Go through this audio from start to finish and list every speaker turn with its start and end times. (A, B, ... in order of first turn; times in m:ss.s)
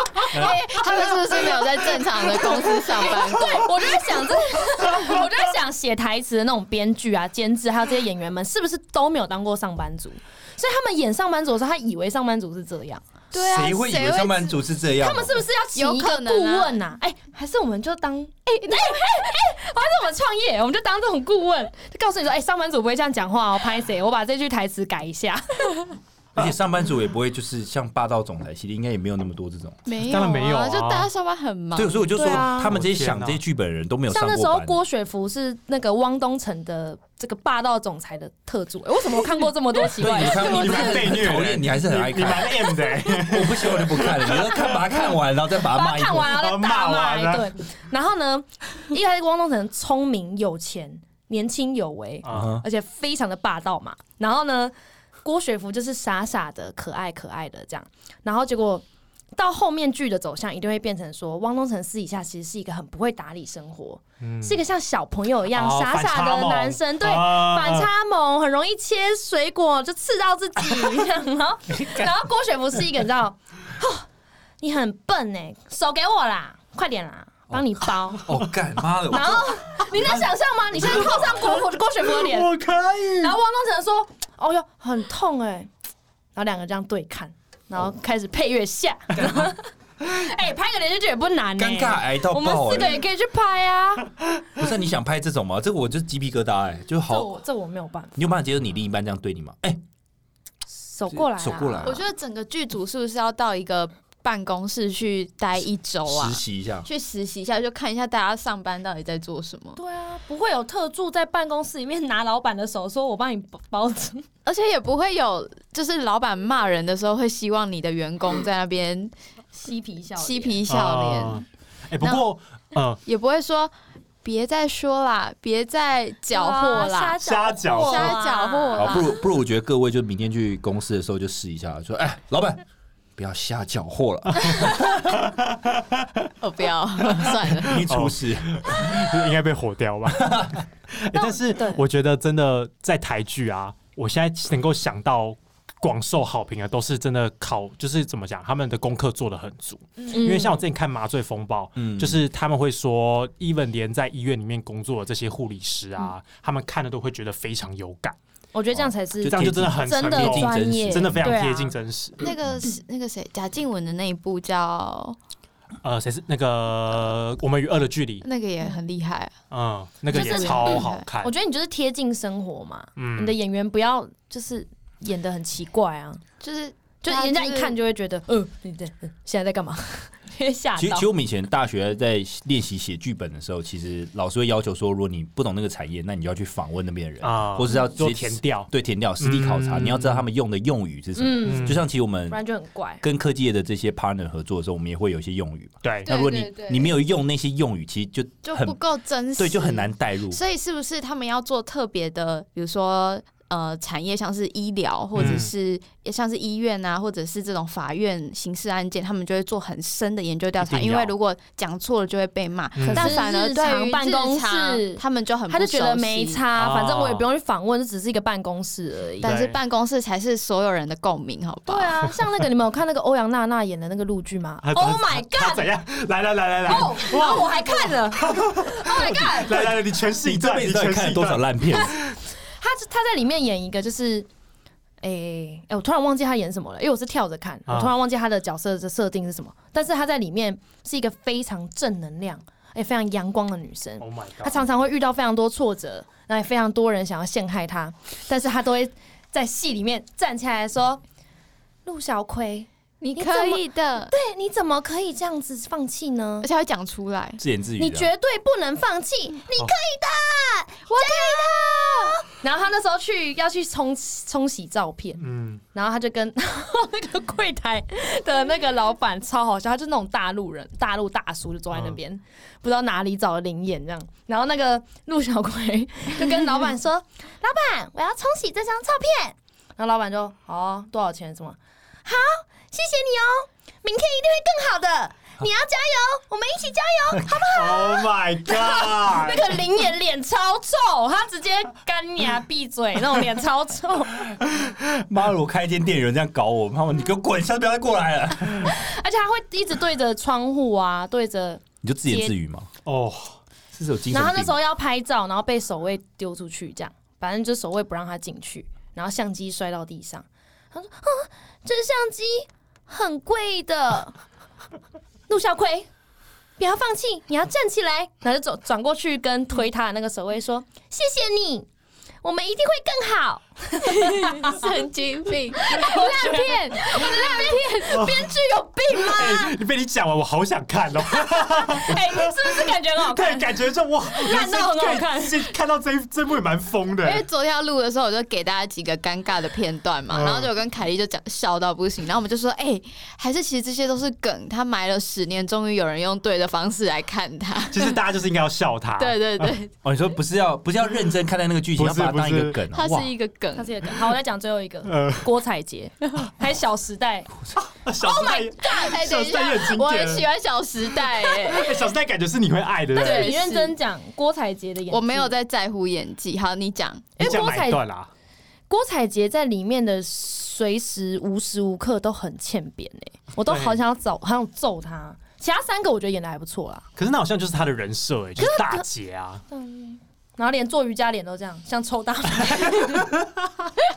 0:00.3-0:00.6 A
0:00.3-0:04.0 B
0:03.0-0:13.0 C
0:13.3-0:14.6 B
0:13.3-0:15.4 D
0:15.0-0:25.9 C
0:15.7-0:16.8 B
0:18.7-0:19.0 B
0:26.3-0:29.8 D
0:29.9-0:32.1 B
0:30.0-0:31.1 A
0:31.8-0:34.8 D
0:32.2-0:32.7 C
0:32.2-0:33.4 A
0:34.1-0:41.2 C
0:39.9-0:46.4 D
0:40.2-0:44.8 A
0:45.6-0:58.8 C
0:46.2-0:47.5 A
0:52.2-0:52.5 A
0:52.3-0:52.6 D
0:59.4-1:14.1 C
1:04.2-1:04.6 A
1:05.5-1:07.9 A
1:14.6-1:18.3 C
1:18.2-1:19.9 D
1:19.1-1:22.5 C
1:20.9-1:21.2 D
1:22.0-1:23.4 A
1:23.2-1:25.7 C
1:26.3-1:34.1 C
1:31.6-1:33.0 D
1:34.5-1:37.4 D
1:37.1-1:38.2 C
1:38.2-1:39.8 D
1:40.7-1:42.0 C
1:41.1-1:42.0 D
1:41.8-1:49.8 B
1:46.1-1:46.9 D
1:49.8-1:54.3 C
1:54.4-1:59.1 B
1:59.5-2:00.6 C
2:00.2-2:01.4 B
2:00.7-2:03.0 A
2:03.0-2:03.7 B
2:04.2-2:09.2 B
2:06.3-2:09.1 C
2:07.2-2:08.2 A
2:08.8-2:12.6 D
2:13.2-2:15.2 D
2:14.5-2:16.3 A
2:16.4-2:17.8 B
2:17.1-2:38.2 A
2:17.4-2:19.1 D
2:20.2-2:20.6 D
2:21.1-2:21.8 C
2:30.1-2:30.6 C
2:31.8-2:32.2 D
2:38.5-2:41.8 C
2:39.2-2:41.4 D
2:39.2-2:42.2 A
2:42.2-2:45.2 B
2:45.8-2:48.2 A
2:48.2-2:49.3 B
2:49.5-2:51.3 A
2:50.1-2:51.0 B
2:50.1-2:56.2 C
2:53.0-2:53.4 A
2:56.4-2:57.7 B
2:57.0-3:01.1 C
3:00.8-3:12.4 D
3:07.2-3:10.2 A
3:11.2-3:13.0 C
3:11.4-3:11.8 A
3:13.0-3:18.8 D
3:15.8-3:16.1 A
3:16.0-3:16.9 B
3:18.4-3:36.4 B
3:19.4-3:20.4 D
3:25.1-3:25.5 A
3:30.6-3:31.1 A
3:32.8-3:33.2 A
3:32.9-3:39.3 C
3:36.5-3:37.3 A
3:39.2-3:42.0 B
3:39.2-3:39.6 A
3:41.7-3:45.7 C
3:44.6-3:51.9 A
3:46.6-3:49.6 C
3:49.0-3:52.0 D
3:52.6-3:54.3 C
3:55.0-4:11.0 C
3:57.7-3:57.9 A
4:04.0-4:04.7 A
4:11.8-4:16.5 C
4:13.0-4:14.1 B
4:16.4-4:17.4 B
4:17.4-4:18.1 D
4:17.8-4:25.2 C
4:20.9-4:22.2 B
4:25.2-4:25.6 A
4:25.7-4:54.3 C
4:31.7-4:32.0 A
4:47.5-4:49.5 A
4:54.5-4:58.8 D
4:58.6-5:02.3 C
5:01.8-5:02.7 D
5:02.8-5:03.4 A
5:03.7-5:04.6 D
5:04.1-5:14.1 C
5:15.3-5:15.9 C
5:16.6-5:21.7 C
5:22.2-5:24.6 C
5:24.0-5:29.1 B
5:25.5-5:29.5 C
5:27.9-5:28.3 A
5:29.0-5:37.2 A
5:31.6-5:35.5 C
5:37.0-5:48.0 B
5:40.1-5:40.5 A
5:47.7-5:49.6 A
5:49.0-5:49.7 B
5:49.8-5:53.1 D
5:51.8-5:52.6 A
5:52.7-5:53.7 B
5:53.5-5:57.3 C
5:54.8-5:55.3 A
5:57.6-6:00.2 A
5:58.0-6:01.8 B
6:01.5-6:03.3 A
6:03.0-6:05.3 C
6:03.0-6:03.8 B
6:04.9-6:07.1 B
6:07.2-6:07.8 C
6:07.2-6:08.1 A
6:08.7-6:16.9 C
6:13.5-6:13.8 A
6:17.0-6:19.4 A
6:18.4-6:18.8 C
6:19.5-6:23.2 C